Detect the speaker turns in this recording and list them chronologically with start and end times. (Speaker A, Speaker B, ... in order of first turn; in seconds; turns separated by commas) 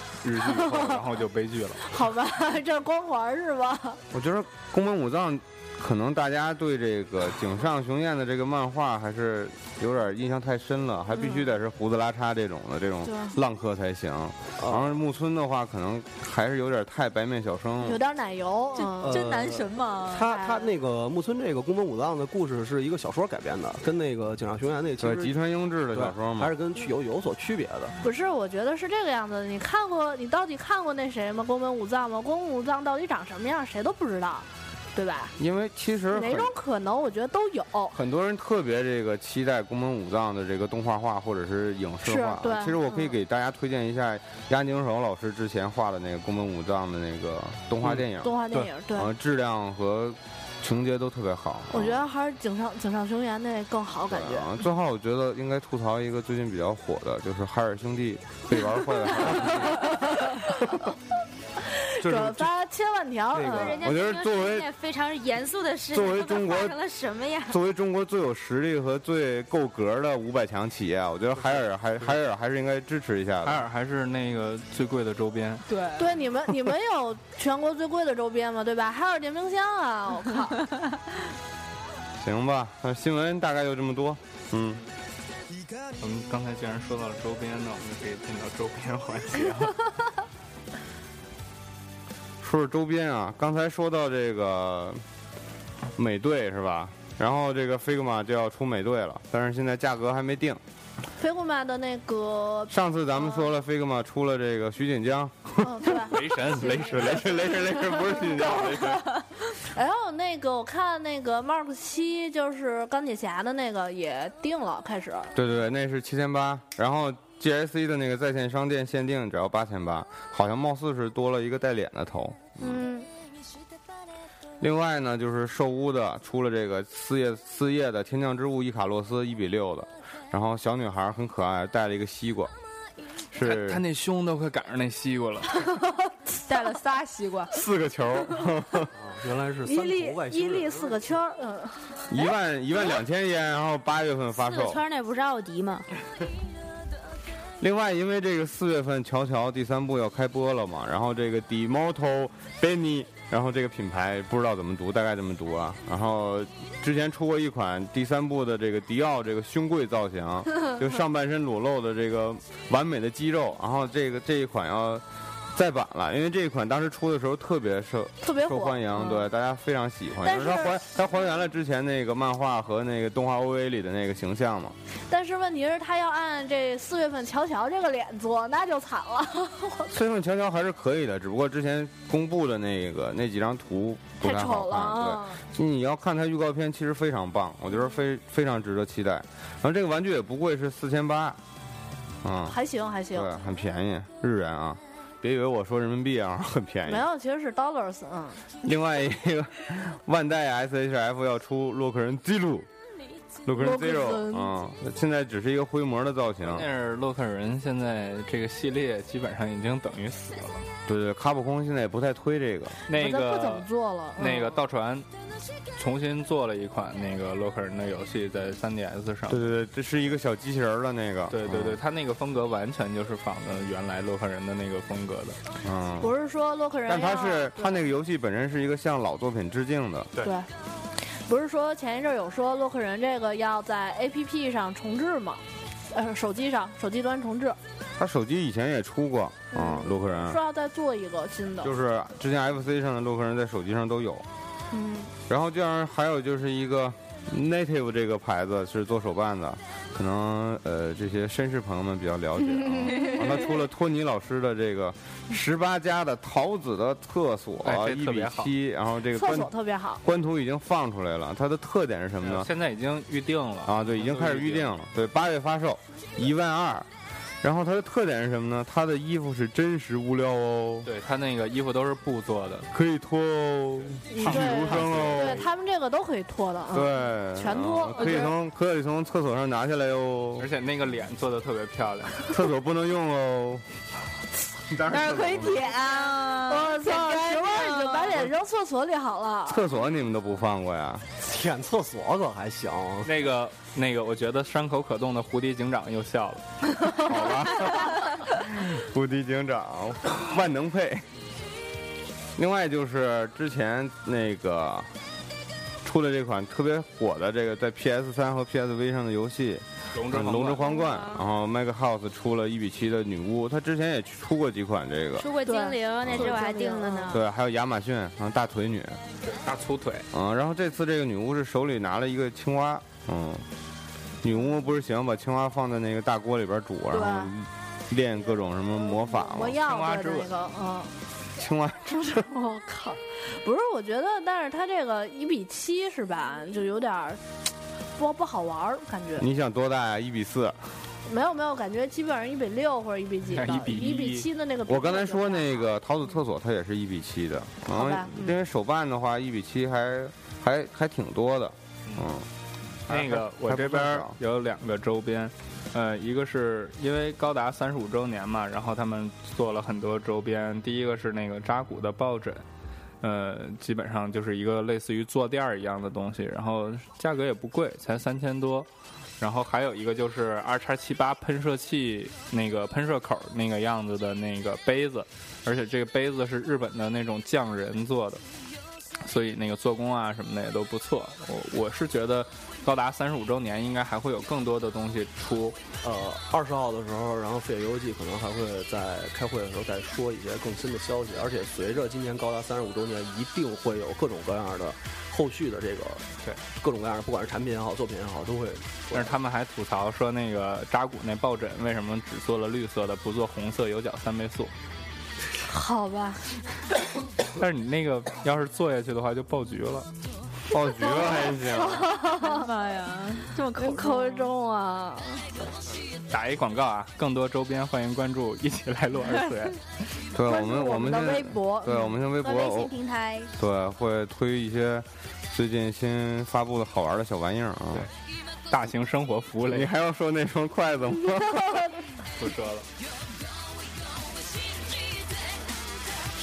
Speaker A: 0.2-1.8, Speaker B: 0.4-1.0, Speaker B: 1.9-4.0, Speaker C: 4.1-18.0, Speaker B: 13.1-13.4, Speaker D: 14.6-14.9, Speaker B: 17.8-19.2, Speaker E: 18.8-20.3, Speaker D: 19.0-25.3, Speaker B: 20.3-20.7, Speaker C: 25.0-26.5, Speaker D: 25.9-27.9, Speaker B: 28.0-35.3, Speaker C: 35.4-36.5, Speaker B: 36.1-38.0, Speaker C: 37.9-52.0, Speaker B: 42.0-43.1, Speaker B: 48.2-49.1, Speaker B: 51.7-54.5, Speaker C: 54.1-60.0, Speaker B: 59.3-60.8, Speaker B: 61.8-63.8, Speaker D: 62.0-62.5, Speaker D: 63.3-63.8, Speaker F: 63.5-67.6, Speaker C: 63.8-64.7, Speaker C: 65.9-66.8, Speaker C: 67.5-73.6, Speaker A: 73.4-75.6, Speaker E: 75.7-76.2, Speaker B: 76.0-80.6, Speaker C: 82.2-84.8, Speaker A: 86.0-89.9, Speaker C: 92.4-95.0, Speaker C: 96.0-100.6, Speaker B: 101.2-103.5, Speaker C: 102.7-109.1, Speaker B: 105.6-107.0, Speaker A: 106.1-109.0, Speaker B: 109.7-115.3, Speaker C: 115.3-122.8, Speaker B: 122.6-123.1, Speaker C: 124.6-132.5, Speaker C: 133.3-133.8, Speaker A: 133.4-135.6, Speaker E: 136.4-137.6, Speaker C: 137.5-138.9, Speaker D: 138.9-141.1, Speaker B: 139.6-141.8, Speaker C: 142.1-144.8, Speaker F: 144.4-145.9, Speaker C: 147.6-174.8, Speaker B: 168.2-169.3, Speaker B: 170.2-170.8, Speaker B: 175.1-179.9, Speaker C: 179.9-191.4, Speaker B: 184.2-185.4, Speaker C: 192.2-192.6, Speaker B: 192.5-193.3, Speaker C: 193.1-197.1, Speaker B: 196.9-198.4, Speaker C: 198.6-202.7, Speaker C: 203.4-206.7, Speaker B: 203.6-204.6, Speaker A: 206.4-210.7, Speaker C: 210.9-212.8, Speaker A: 212.9-215.1, Speaker B: 212.9-214.6, Speaker A: 215.8-219.5, Speaker C: 219.3-221.8, Speaker A: 221.3-225.4, Speaker C: 225.6-226.1, Speaker B: 226.0-227.8, Speaker C: 226.9-230.1, Speaker B: 230.2-230.5, Speaker B: 231.0-237.6, Speaker C: 238.0-240.4, Speaker B: 239.5-241.7, Speaker C: 241.6-244.3, Speaker B: 244.7-245.1, Speaker C: 245.3-262.5, Speaker B: 252.8-253.2, Speaker A: 257.6-258.5, Speaker B: 259.1-260.0, Speaker A: 262.2-264.8, Speaker C: 263.6-266.9, Speaker C: 267.4-270.9, Speaker A: 270.9-272.7, Speaker C: 272.7-275.4, Speaker B: 274.1-278.3, Speaker A: 274.2-275.5, Speaker C: 276.7-280.5, Speaker E: 278.0-278.3, Speaker A: 280.4-282.4, Speaker C: 282.3-283.6, Speaker C: 284.7-285.8, Speaker E: 284.9-288.2, Speaker F: 285.2-285.6, Speaker B: 286.4-289.6, Speaker C: 289.5-291.1, Speaker D: 291.2-293.1, Speaker A: 293.1-296.4, Speaker C: 297.0-301.1, Speaker C: 302.4-304.9, Speaker C: 305.8-315.3, Speaker A: 309.9-310.7, Speaker F: 310.7-311.1, Speaker F: 315.2-317.2, Speaker B: 315.4-317.2, Speaker C: 316.0-316.4, Speaker C: 317.1-319.0, Speaker A: 319.3-320.1, Speaker C: 320.1-323.4, Speaker C: 324.2-329.6, Speaker B: 326.9-327.3, Speaker B: 329.1-330.9, Speaker A: 329.6-330.3, Speaker C: 331.4-332.3, Speaker B: 332.0-337.2, Speaker B: 338.0-339.3, Speaker C: 339.2-340.7, Speaker B: 341.1-345.7, Speaker A: 343.3-344.3, Speaker C: 344.6-352.3, Speaker B: 347.7-348.4, Speaker C: 352.9-354.1, Speaker A: 352.9-362.4, Speaker A: 363.0-368.7, Speaker A: 369.2-378.2, Speaker A: 379.0-385.6, Speaker D: 385.8-399.1, Speaker A: 398.9-404.5, Speaker B: 405.4-406.3, Speaker A: 407.4-409.9, Speaker C: 410.5-411.9, Speaker B: 410.7-412.5, Speaker E: 412.0-414.3, Speaker B: 413.6-415.3, Speaker A: 416.1-419.6, Speaker C: 420.1-422.7, Speaker B: 420.3-421.9, Speaker F: 422.2-423.3, Speaker C: 423.4-427.9, Speaker A: 428.5-429.7, Speaker C: 429.4-431.7, Speaker B: 431.2-431.8, Speaker A: 432.2-432.7